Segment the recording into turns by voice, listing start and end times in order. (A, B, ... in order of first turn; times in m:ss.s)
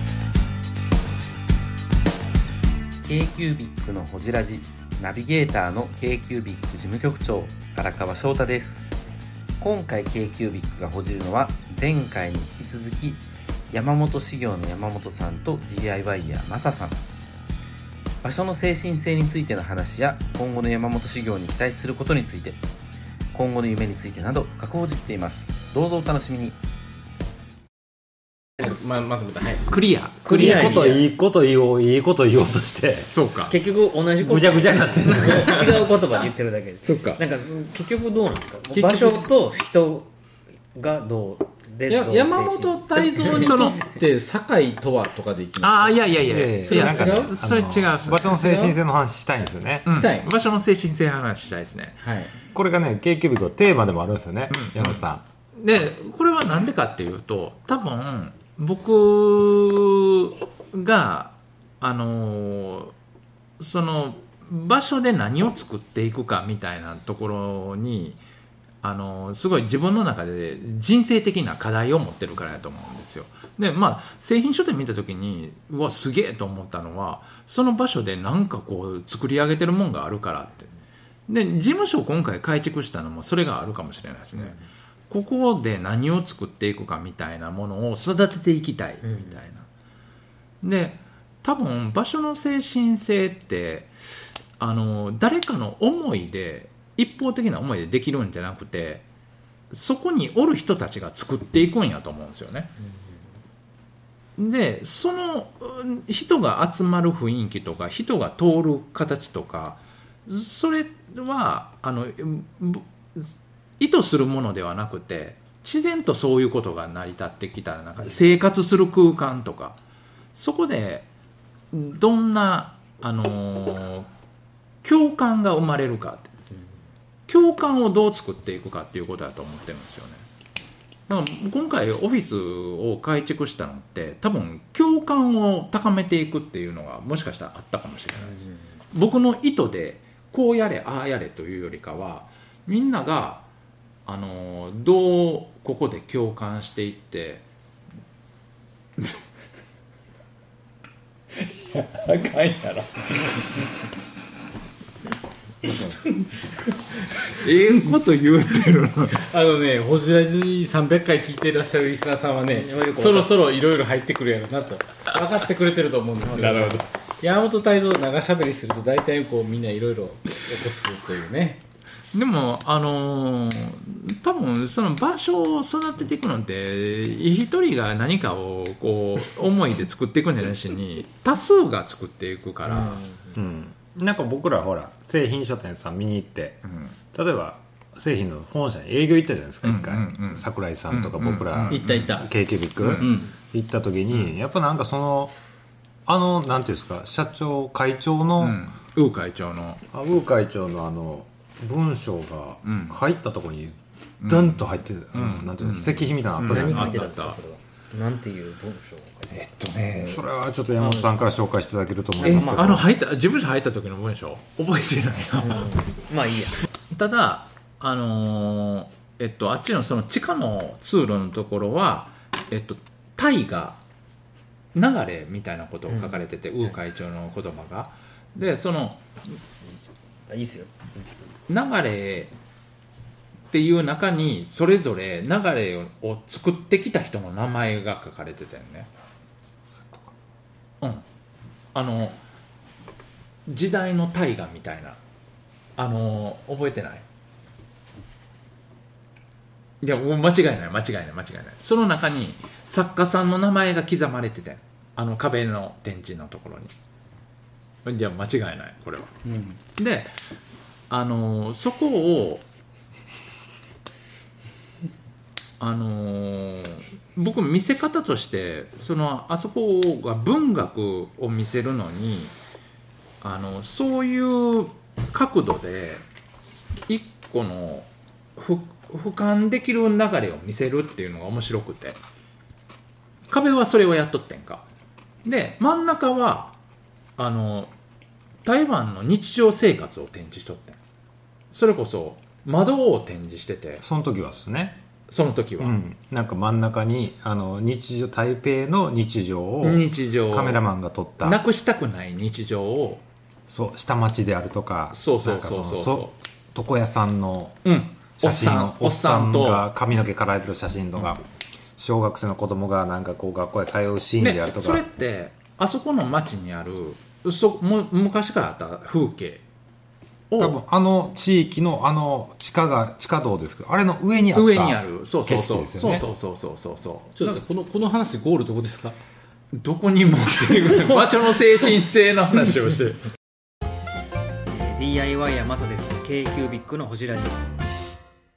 0:03.0-0:09.0 A
0:09.6-0:17.0 A
0:18.2-0:22.6 A
0:23.3-0:26.6 A
0:28.6-0:29.7 B
0:29.7-0:31.0 C
0:30.2-0:31.0 D
0:30.3-0:33.1 E
0:33.1-0:33.5 C
0:33.5-0:40.1 D
0:34.2-0:35.5 E
0:35.2-0:35.9 C
0:36.8-0:37.2 C
0:38.7-0:39.2 B
0:40.7-0:43.6 D
0:41.9-0:46.1 B
0:43.2-0:43.8 C
0:45.6-0:48.4 C
0:46.2-0:49.9 E
0:46.6-0:47.4 B
0:48.4-0:48.7 B
0:49.9-0:50.3 B
0:49.9-0:52.0 C
0:52.0-0:52.3 B
0:52.5-0:55.2 E
0:54.5-0:55.0 C
0:55.6-1:02.9 C
1:03.6-1:08.2 C
1:08.8-1:20.7 C
1:21.3-1:24.6 C
1:25.1-1:29.7 C
1:30.6-1:33.9 C
1:34.6-1:39.0 C
1:39.7-1:42.7 C
1:44.4-1:59.8 C
2:00.3-2:01.1 C
2:01.7-2:04.1 C
2:04.8-2:06.3 C
2:07.3-2:10.2 C
2:11.1-2:23.4 C
2:24.0-2:27.4 C
2:31.4-2:33.5 C
2:37.2-2:39.2 C
2:39.1-2:51.6 B
2:42.5-2:43.3 D
2:46.3-2:46.8 C
2:46.4-2:46.7 D
2:52.1-3:03.0 C
3:02.9-3:03.3 D
3:03.3-3:15.3 E
3:06.7-3:06.9 C
3:09.6-3:12.1 C
3:11.7-3:12.3 B
3:12.8-3:13.1 C
3:13.0-3:13.3 B
3:16.0-3:18.6 E
3:18.4-3:19.8 C
3:19.9-3:27.0 E
3:22.6-3:23.0 C
3:24.2-3:27.4 C
3:26.4-3:29.5 D
3:29.3-3:30.2 C
3:30.0-3:32.9 E
3:30.8-3:31.2 D
3:32.2-3:32.8 D
3:32.2-3:35.7 C
3:35.4-3:36.6 D
3:36.9-3:43.8 C
3:44.7-3:49.2 C
3:45.9-3:46.2 D
3:50.3-3:51.1 D
3:51.5-3:52.3 C
3:53.5-3:58.9 C
3:59.7-4:00.1 E
4:01.7-4:02.2 C
4:03.5-4:05.0 C
4:05.8-4:07.0 C
4:09.8-4:16.7 C
4:17.8-4:19.2 C
4:19.2-4:19.6 B
4:19.8-4:20.2 C
4:20.9-4:22.4 C
4:25.6-4:32.3 C
4:33.2-4:36.0 C
4:36.9-4:42.0 C
4:43.3-4:44.6 C
4:45.2-4:46.5 C
4:47.2-4:47.7 C
4:48.4-4:50.8 C
4:51.5-4:53.8 C
4:53.8-4:54.8 E
4:55.1-4:55.8 C
4:55.6-5:01.4 E
4:59.6-5:00.6 C
5:01.2-5:03.0 C
5:03.5-5:07.6 E
5:04.9-5:06.1 C
5:07.6-5:09.7 C
5:08.2-5:11.2 E
5:11.8-5:14.8 E
5:14.2-5:19.4 C
5:20.3-5:20.6 C
5:20.4-5:26.0 E
5:24.3-5:27.4 C
5:27.2-5:29.0 B
5:29.5-5:33.0 C
5:34.5-5:37.5 D